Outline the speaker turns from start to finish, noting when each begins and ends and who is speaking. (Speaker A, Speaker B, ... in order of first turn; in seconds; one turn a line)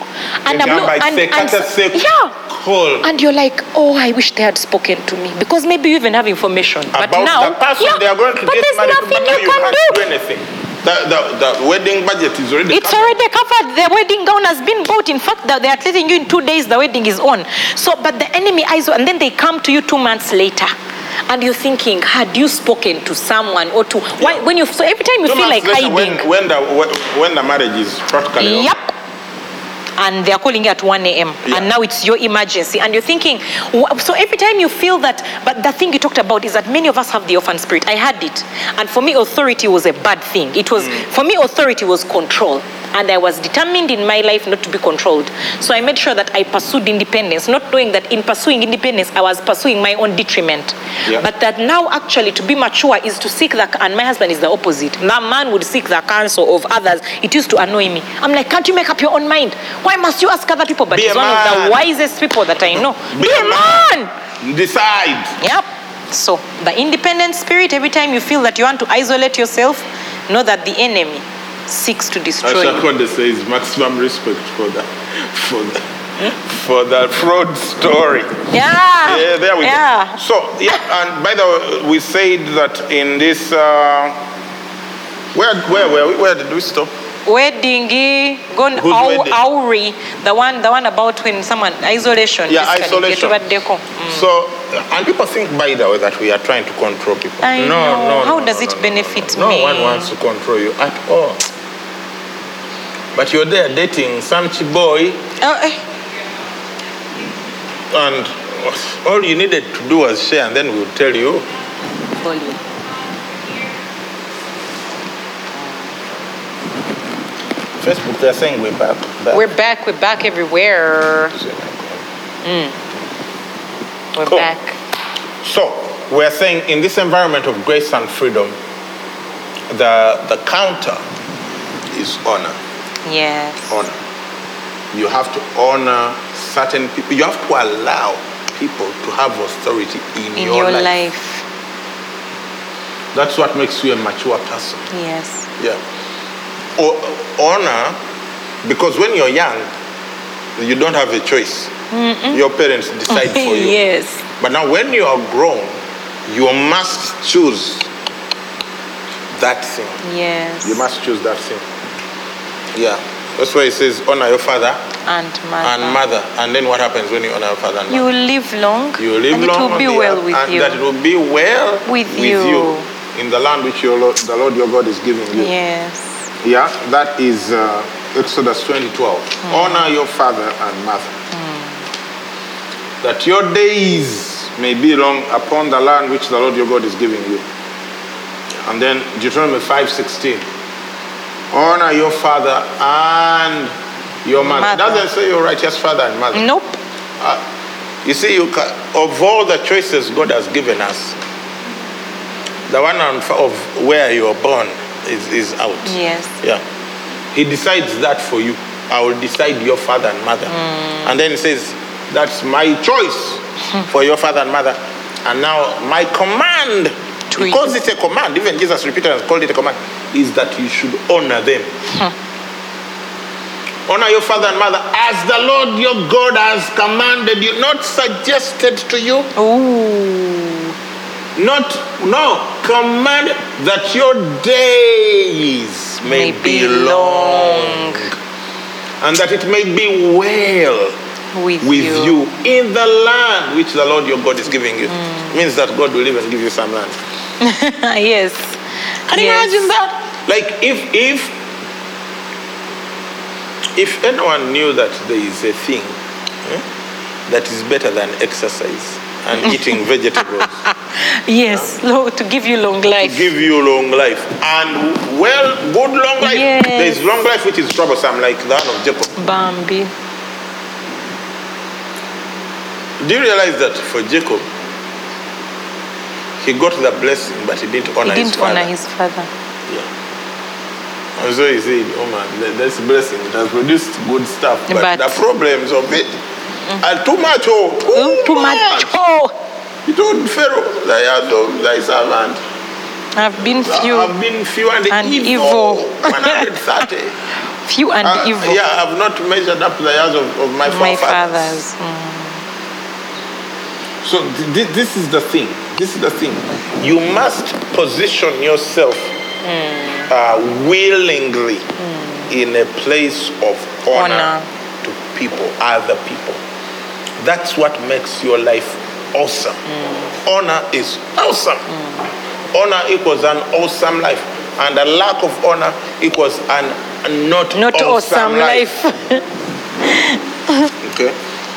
Speaker A: 0.4-2.3
Speaker B: 0.5-3.1
Speaker A: 3.0-10.0
Speaker B: 6.9-13.2
Speaker A: 12.7-20.7
Speaker A: 21.3-26.2
Speaker B: 25.2-28.7
Speaker A: 28.4-28.9
Speaker A: 30.0-64.1
Speaker B: 60.9-61.8
Speaker B: 62.7-63.9
Speaker B: 64.4-65.4
Speaker A: 65.4-72.8
Speaker B: 72.4-78.4
Speaker A: 78.5-80.2
Speaker B: 79.0-84.2
Speaker B: 85.3-86.9
Speaker A: 87.2-94.2
Speaker B: 88.7-89.4
Speaker B: 92.5-93.4
Speaker B: 94.0-101.4
Speaker A: 97.4-100.1
Speaker B: 103.1-105.2
Speaker A: 105.4-105.8
Speaker B: 107.9-111.5
Speaker A: 112.1-112.6
Speaker B: 117.8-119.4
Speaker A: 119.3-121.3
Speaker B: 121.3-122.0
Speaker A: 122.4-122.7
Speaker A: 124.1-124.8
Speaker B: 125.4-128.6
Speaker B: 129.7-131.0
Speaker B: 131.9-132.6
Speaker A: 133.0-133.8
Speaker B: 133.7-134.0
Speaker B: 134.9-141.0
Speaker A: 140.3-141.4
Speaker B: 143.1-144.8
Speaker A: 144.9-145.5
Speaker B: 146.8-148.0
Speaker B: 148.6-149.7
Speaker B: 150.6-151.7
Speaker A: 151.9-152.4
Speaker B: 152.3-153.8
Speaker A: 153.1-154.2
Speaker B: 154.4-155.7
Speaker B: 156.3-157.9
Speaker B: 159.3-160.0
Speaker A: 160.0-160.8
Speaker B: 160.6-161.6
Speaker B: 162.7-164.8
Speaker A: 165.0-166.0
Speaker B: 165.6-168.1
Speaker A: 167.9-170.8
Speaker B: 169.0-175.5
Speaker A: 171.8-172.9
Speaker A: 175.3-176.2
Speaker B: 176.4-181.1
Speaker A: 179.4-179.8
Speaker A: 181.3-181.7
Speaker B: 183.0-187.4
Speaker B: 188.6-190.4
Speaker B: 191.5-193.7
Speaker B: 194.2-196.5
Speaker A: 194.4-195.0
Speaker A: 196.3-196.8
Speaker B: 198.0-201.2
Speaker B: 202.7-206.6
Speaker A: 205.8-206.3
Speaker B: 207.3-221.7
Speaker A: 210.5-211.1
Speaker A: 217.3-217.8
Speaker B: 223.9-229.3
Speaker A: 229.3-230.7
Speaker B: 231.3-238.1
Speaker A: 236.0-238.1
Speaker B: 239.0-240.9
Speaker A: 241.3-242.3
Speaker B: 241.6-247.0
Speaker A: 244.9-245.3
Speaker A: 247.4-249.7
Speaker B: 249.1-251.4
Speaker B: 253.7-256.6
Speaker B: 257.3-260.6
Speaker A: 259.4-259.7
Speaker A: 260.4-263.3
Speaker B: 263.0-269.1
Speaker A: 266.2-267.0
Speaker A: 269.2-269.9
Speaker B: 273.0-274.5
Speaker B: 276.4-278.7
Speaker A: 278.0-279.3
Speaker B: 281.2-286.1
Speaker A: 284.7-285.2
Speaker B: 286.8-288.9
Speaker A: 287.9-289.3
Speaker B: 289.9-292.4
Speaker A: 293.1-294.1
Speaker B: 293.5-297.1
Speaker A: 294.9-296.6
Speaker A: 297.6-298.6
Speaker B: 298.0-301.6
Speaker A: 300.6-302.4
Speaker B: 304.0-309.1
Speaker A: 309.4-310.1
Speaker B: 310.1-311.7
Speaker A: 311.8-312.2
Speaker B: 312.3-316.4
Speaker A: 313.9-314.5
Speaker B: 317.2-319.6
Speaker A: 319.7-320.1
Speaker B: 320.2-321.7
Speaker A: 321.7-322.0
Speaker B: 322.5-328.7
Speaker A: 327.5-329.2
Speaker A: 329.8-330.7
Speaker B: 330.8-331.1